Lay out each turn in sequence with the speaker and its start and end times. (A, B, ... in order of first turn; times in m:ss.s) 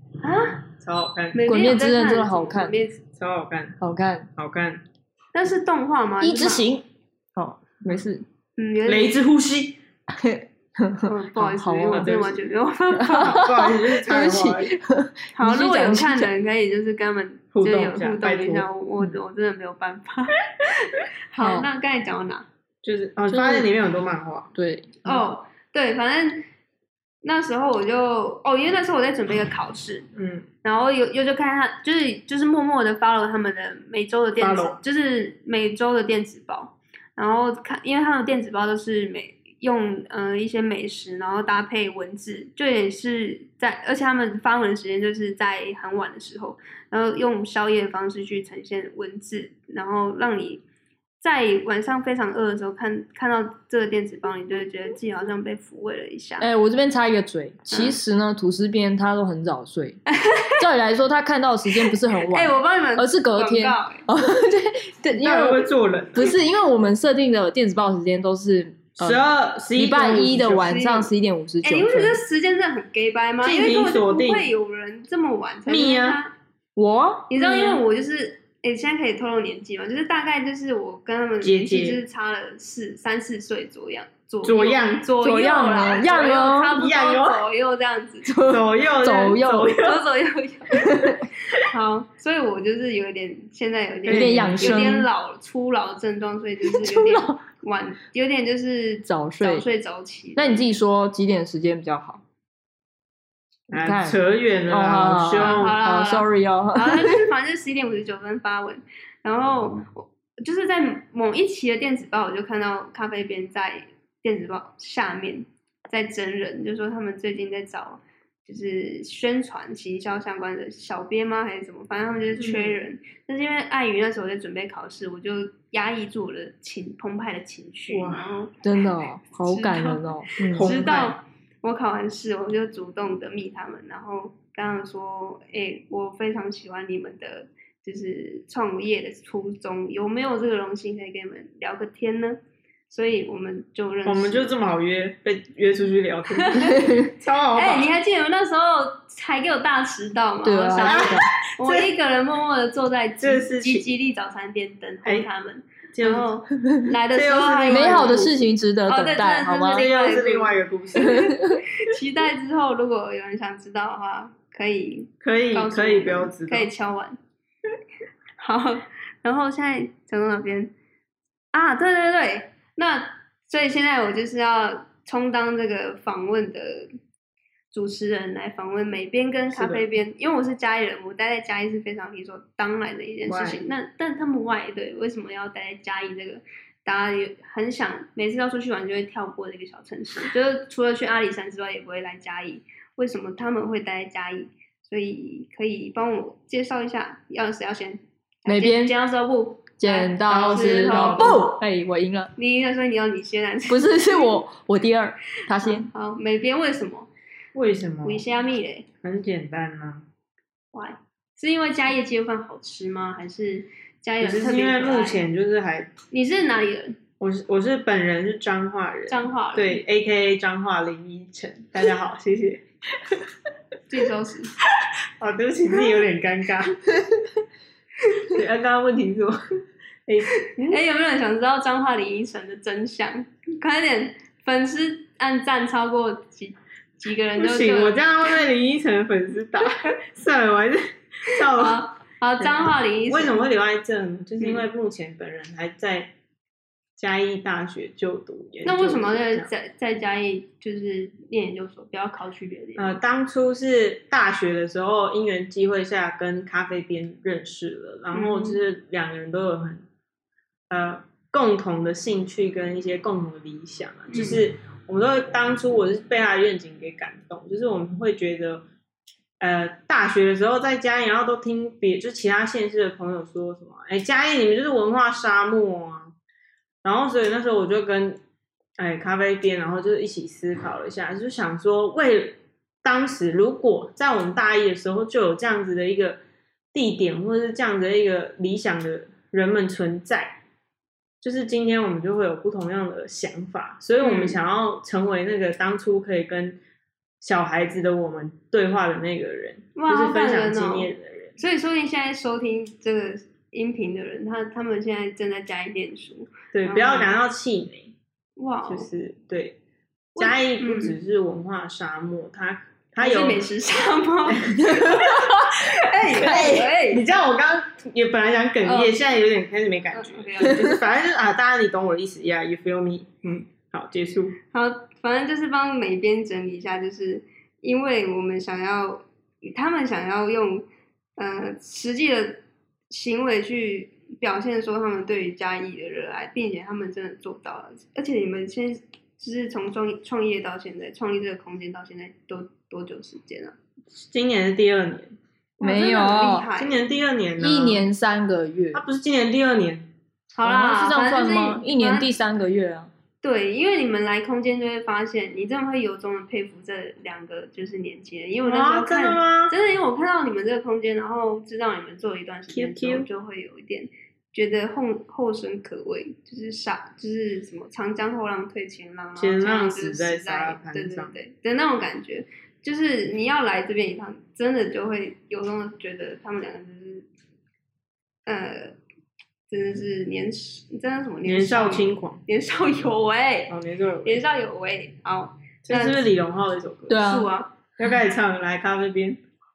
0:00.2-0:00.6 A
0:00.8-0:01.4 B
0:01.3-0:03.0 A
0:01.5-0:02.8 C
0:03.1-0:03.8 B
0:03.8-0:04.3 C
0:04.4-0:04.8 B
0:05.4-0:06.6 A
0:06.2-0:08.2 C
0:08.6-0:09.2 A
0:08.9-0:09.8 B
0:10.1-0:12.1 C
0:11.0-0:13.6 A
0:11.9-0:12.4 B
0:13.0-0:16.3 C
0:13.1-0:14.7 B
0:15.4-0:22.5 A
0:17.5-0:18.7 B
0:21.4-0:21.7 C
0:22.8-0:24.5 B
0:23.3-0:23.7 C
0:24.6-0:25.2 C
0:25.0-0:26.4 A
0:27.2-0:30.1 A
0:30.2-0:30.5 B
0:30.6-0:50.6 A
0:34.4-0:34.8 B
0:51.2-0:56.5 A
0:56.4-1:00.0 C
0:57.7-0:58.0 A
1:00.1-1:00.6 A
1:00.6-1:09.2 C
1:01.8-1:04.1 A
1:05.2-1:06.3 B
1:09.0-1:10.8 B
1:09.7-1:12.2 C
1:10.7-1:11.1 A
1:11.6-1:16.3 A
1:13.4-1:14.5 B
1:15.7-1:16.2 B
1:16.8-1:17.8 C
1:17.3-1:28.4 A
1:21.4-1:22.0 B
1:24.4-1:25.1 B
1:25.2-1:26.8 C
1:26.7-1:27.4 B
1:28.3-1:29.8 C
1:28.4-1:30.0 B
1:29.8-1:40.7 A
1:30.8-1:31.2 C
1:34.0-1:34.9 B
1:34.1-1:35.1 C
1:36.7-1:37.4 C
1:39.1-1:39.6 C
1:40.4-1:42.2 C
1:43.7-1:45.8 B
1:43.7-1:47.2 C
1:45.4-2:08.6 A
2:02.4-2:02.8 B
2:07.9-2:08.3 B
2:08.6-2:10.7 C
2:09.5-2:22.4 A
2:10.4-2:11.2 B
2:22.9-2:24.5 A
2:24.1-2:27.9 B
2:26.4-2:47.2 A
2:26.6-2:27.1 C
2:30.4-2:31.3 C
2:30.8-2:31.9 B
2:33.2-2:33.9 B
2:35.9-2:36.4 B
2:37.1-2:38.2 B
2:37.7-2:39.9 C
2:39.7-2:41.3 B
2:41.0-2:41.6 C
2:45.2-2:46.7 B
2:48.4-2:50.7 A
2:51.5-2:56.9 A
2:57.7-3:21.6 A
2:59.5-2:59.9 B
3:03.3-3:03.6 B
3:18.5-3:18.9 C
3:19.8-3:22.3 C
3:20.2-3:21.6 B
3:22.4-3:24.4 A
3:23.7-3:25.9 C
3:25.5-3:27.1 A
3:27.6-3:28.2 B
3:28.0-3:28.9 A
3:29.0-3:30.1 B
3:30.7-3:35.2 A
3:34.2-3:35.9 B
3:36.1-3:37.0 A
3:37.2-3:42.6 B
3:39.1-3:39.8 A
3:43.9-3:44.5 A
3:45.2-3:46.8 B
3:48.2-3:49.4 B
3:50.1-3:50.8 B
3:50.6-3:58.0 A
3:57.4-4:06.1 B
4:01.3-4:03.4 A
4:04.4-4:04.6 A
4:07.0-4:09.5 B
4:08.6-4:13.0 A
4:12.8-4:19.8 B
4:18.1-4:18.6 A
4:20.7-4:28.6 B
4:24.1-4:24.4 A
4:29.4-4:36.1 B
4:36.8-4:38.2 B
4:38.8-4:46.2 B
4:46.7-4:50.4 B
4:51.2-4:56.6 B
4:54.0-4:54.4 A
4:57.2-5:01.4 B
4:59.8-5:07.2 A
5:06.5-5:07.9 B
5:08.4-5:08.9 A
5:08.7-5:09.6 B
5:10.2-5:11.0 A
5:10.2-5:13.5 B
5:13.0-5:17.0 A
5:14.3-5:15.2 B
5:16.1-5:24.4 B
5:18.6-5:19.1 A
5:19.9-5:20.8 A
5:24.5-5:30.7 A
5:31.2-5:43.6 A
5:43.9-5:45.2 B
5:45.6-5:46.9 A
5:45.6-5:46.5 C
5:46.6-5:47.8 B
5:47.4-5:48.8 C
5:48.7-5:49.9 B
5:50.3-5:52.1 A
5:50.4-5:52.9 C
5:53.2-6:17.1 A
5:58.4-5:59.5 B
6:02.5-6:03.1 B
6:09.2-6:11.1 B
6:18.3-6:18.8 A
6:19.5-6:26.0 A
6:21.2-6:22.2 B
6:23.5-6:24.2 B
6:25.7-6:27.0 B
6:26.9-6:27.3 C
6:27.0-6:27.5 A
6:27.8-6:29.2 B